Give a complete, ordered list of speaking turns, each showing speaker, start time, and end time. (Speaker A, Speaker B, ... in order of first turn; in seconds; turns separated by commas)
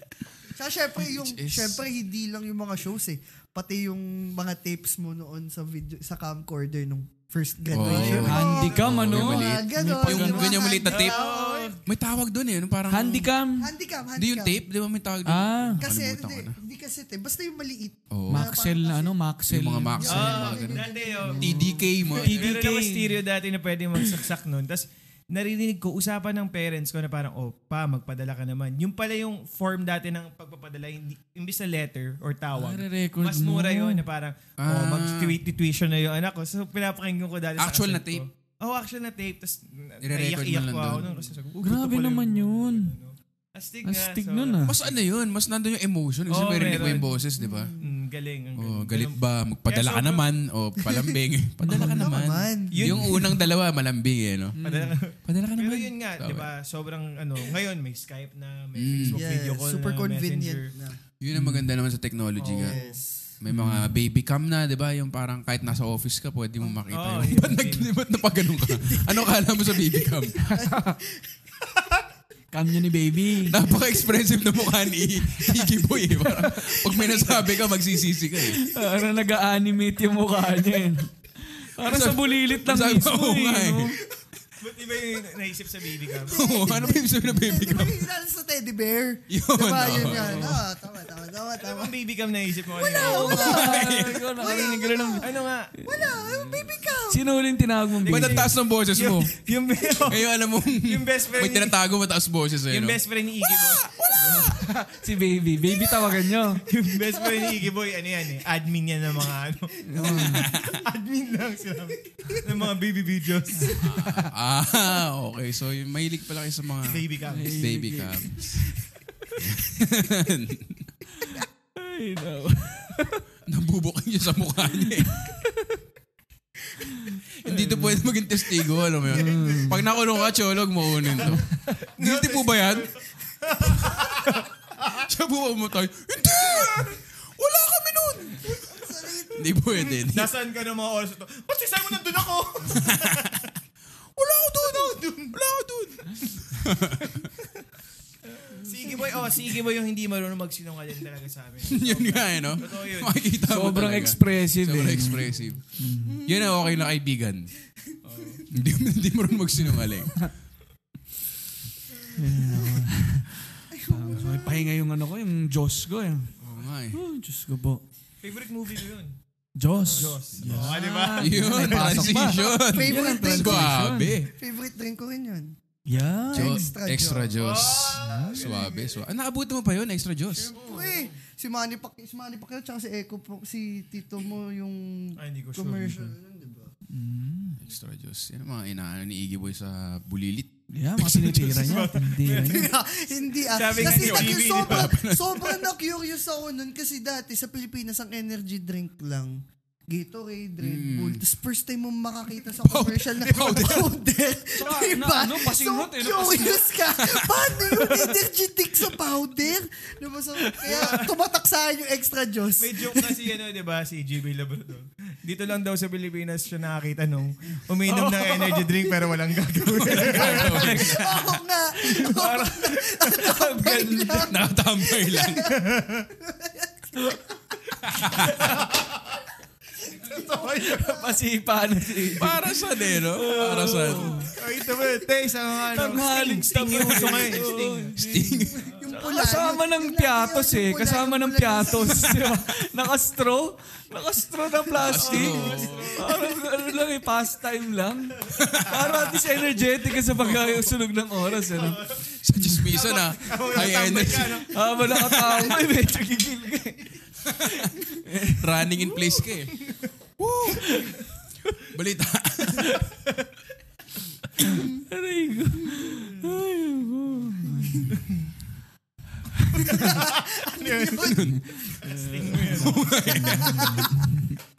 Speaker A: 0.6-11.8, Speaker B: 1.0-1.8, Speaker B: 7.7-11.2, Speaker C: 7.8-10.6, Speaker D: 8.0-8.4, Speaker D: 10.9-11.8, Speaker B: 11.9-13.3, Speaker C: 12.9-13.7, Speaker A: 13.6-14.6, Speaker B: 14.2-16.6, Speaker C: 15.3-15.8, Speaker A: 15.8-19.1, Speaker B: 18.1-18.5, Speaker C: 18.3-20.3, Speaker B: 19.5-20.8, Speaker A: 20.0-21.7, Speaker D: 20.1-45.0, Speaker C: 21.3-23.1, Speaker B: 21.4-22.6, Speaker C: 32.6-34.0, Speaker B: 34.6-35.4, Speaker B: 37.6-38.2, Speaker B: 40.0-41.1, Speaker C: 41.6-42.9, Speaker C: 43.9-44.8, Speaker B: 44.6-47.7, Speaker D: 46.3-47.1, Speaker A: 46.9-47.9, Speaker D: 47.8-50.2, Speaker B: 48.6-54.6, Speaker C: 51.6-52.1, Speaker A: 51.7-53.2, Speaker D: 52.7-53.5, Speaker C: 54.6-55.0, Speaker D: 54.6-60.7, Speaker B: 55.2-56.5, Speaker B: 58.8-59.2, Speaker A: 59.1-61.0, Speaker B: 61.2-62.8, Speaker C: 61.3-61.7, Speaker D: 62.4-63.0, Speaker A: 62.5-63.2, Speaker B: 63.4-70.5, Speaker C: 63.5-63.9, Speaker D: 66.9-67.9, Speaker A: 68.7-71.3, Speaker C: 70.5-71.0, Speaker C: 72.5-73.6, Speaker B: 73.5-78.7, Speaker C: 75.4-76.8, Speaker D: 76.9-77.6, Speaker C: 78.5-84.0, Speaker B: 81.8-84.0, Speaker D: 84.6-86.4, Speaker A: 86.3-91.9, Speaker B: 86.3-88.0, Speaker B: 89.3-90.5, Speaker C: 90.0-90.6, Speaker D: 91.6-93.7, Speaker A: 92.8-95.3, Speaker C: 92.9-96.3, Speaker B: 93.3-94.3, Speaker D: 95.2-95.7, Speaker A: 95.8-97.2, Speaker B: 96.3-96.7, Speaker C: 97.1-98.5, Speaker D: 98.0-101.8, Speaker B: 98.1-99.3, Speaker B: 100.0-104.6, Speaker D: 102.7-104.7, Speaker C: 104.2-106.7, Speaker D: 106.7-113.9, Speaker A: 107.0-107.6, Speaker C: 109.8-110.5, Speaker B: 110.2-110.8, Speaker A: 112.1-112.5, Speaker C: 113.7-114.3, Speaker B: 113.7-117.0, Speaker D: 116.8-117.6, Speaker C: 117.3-118.7, Speaker B: 117.6-118.7, Speaker B: 119.4-120.9, Speaker C: 121.2-123.2, Speaker B: 123.5-125.2, Speaker C: 124.8-125.8, Speaker C: 126.8-128.1, Speaker B: 127.4-133.0, Speaker C: 129.1-129.9, Speaker D: 131.0-134.9, Speaker B: 133.6-134.0, Speaker B: 134.8-140.3, Speaker A: 138.4-139.7, Speaker D: 139.7-143.5, Speaker B: 142.7-143.4, Speaker B: 144.2-147.3, Speaker D: 144.6-145.3, Speaker D: 148.3-153.2, Speaker B: 151.7-155.6, Speaker C: 153.4-156.2, Speaker A: 156.0-156.9, Speaker B: 156.2-157.5, Speaker D: 158.0-158.4, Speaker B: 158.5-160.3, Speaker C: 162.1-166.3, Speaker A: 163.7-164.7, Speaker B: 166.4-167.0, Speaker C: 166.9-167.8, Speaker D: 168.2-169.2, Speaker C: 169.6-174.2, Speaker D: 169.8-172.0, Speaker B: 170.4-174.3, Speaker A: 171.7-175.6, Speaker C: 175.9-176.7, Speaker A: 176.3-177.4, Speaker B: 176.3-180.5, Speaker D: 177.4-179.0, Speaker C: 178.0-178.4, Speaker A: 180.3-186.7, Speaker D: 180.5-181.1, Speaker D: 185.2-186.1, Speaker C: 186.9-187.6, Speaker B: 187.6-190.5, Speaker C: 190.7-192.7, Speaker B: 191.1-191.6, Speaker D: 191.1-192.7, Speaker A: 192.3-213.1, Speaker D: 193.4-194.9, Speaker B: 193.8-195.3, Speaker B: 200.6-201.2, Speaker B: 202.5-203.9, Speaker C: 204.6-206.8, Speaker B: 207.0-207.4, Speaker C: 210.4-210.7, Speaker D: 210.7-211.1, Speaker D: 212.6-220.8, Speaker C: 217.9-218.7, Speaker B: 219.8-221.2, Speaker A: 220.1-227.6, Speaker C: 220.1-221.2, Speaker C: 221.8-224.4, Speaker B: 224.1-225.5, Speaker D: 225.5-226.1, Speaker C: 227.0-227.2, Speaker B: 227.8-228.4, Speaker C: 228.2-228.6, Speaker D: 228.4-229.2, Speaker A: 229.8-231.1, Speaker D: 230.1-231.0, Speaker C: 230.2-232.5, Speaker B: 232.2-234.2, Speaker C: 233.1-234.3, Speaker D: 234.2-237.9, Speaker C: 235.7-251.8, Speaker B: 238.0-238.7, Speaker A: 238.6-242.3, Speaker B: 244.8-246.0, Speaker D: 244.9-246.4, Speaker D: 248.3-250.7, Speaker B: 248.4-248.8, Speaker D: 251.3-252.1, Speaker B: 252.1-254.5, Speaker C: 252.4-252.7, Speaker D: 252.7-255.2, Speaker C: 254.5-258.7, Speaker B: 255.2-255.5, Speaker B: 257.3-257.6, Speaker B: 258.3-259.7, Speaker D: 259.6-259.9, Speaker B: 260.2-260.8, Speaker C: 260.5-260.9, Speaker B: 261.7-262.9, Speaker C: 262.6-262.9, Speaker C: 264.4-268.0, Speaker A: 264.5-264.9, Speaker D: 267.9-268.3, Speaker C: 269.3-269.9, Speaker D: 269.6-273.3, Speaker A: 269.7-271.3, Speaker B: 271.0-271.4, Speaker C: 271.5-274.4, Speaker B: 272.4-273.8, Speaker A: 273.4-273.9